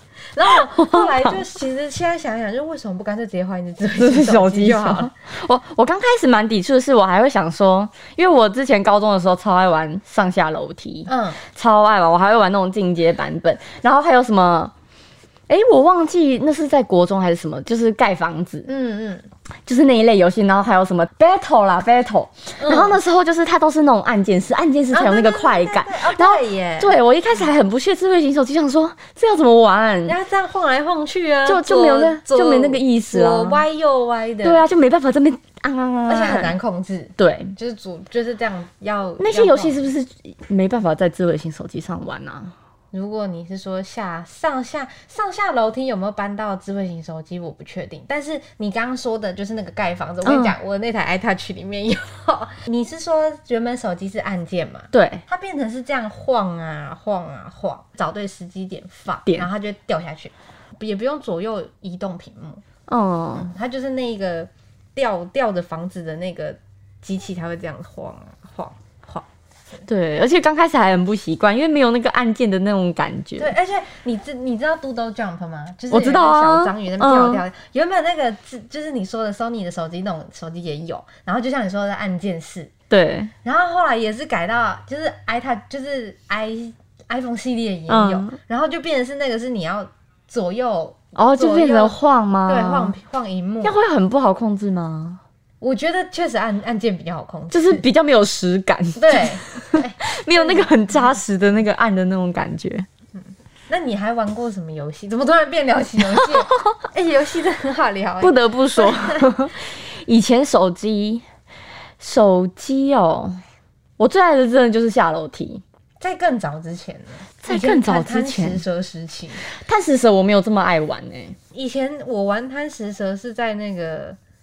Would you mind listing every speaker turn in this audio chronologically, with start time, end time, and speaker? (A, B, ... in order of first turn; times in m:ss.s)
0:00.3-0:05.1 A
0:00.8-0:01.4 B
0:04.0-0:14.7 B
0:11.1-0:11.4 A
0:15.5-0:18.7 B
0:18.7-0:19.3 A
0:19.7-0:30.2 B
0:22.6-0:23.0 A
0:24.9-0:27.5 A
0:30.1-0:34.6 A
0:31.5-0:33.6 B
0:34.4-0:36.6 B
0:36.1-0:39.9 A
0:37.2-0:37.5 B
0:39.2-0:42.5 B
0:42.9-1:02.6 A
0:50.2-0:50.6 B
0:54.9-0:55.2 B
1:02.9-1:03.5 B
1:03.5-1:09.8 A
1:09.9-1:13.5 B
1:13.4-1:22.7 A
1:15.9-1:17.4 B
1:22.9-1:23.3 B
1:23.4-1:33.8 A
1:27.9-1:28.4 B
1:31.2-1:33.0 B
1:33.6-1:35.2 B
1:35.6-1:37.8 A
1:37.5-1:42.9 B
1:39.0-1:41.2 A
1:43.2-1:49.4 A
1:46.1-1:46.7 B
1:48.2-1:51.2 B
1:52.0-1:53.4 B
1:54.0-1:55.6 B
1:56.0-1:59.4 A
1:57.4-1:58.6 B
1:59.5-2:01.4 B
2:01.5-2:04.2 A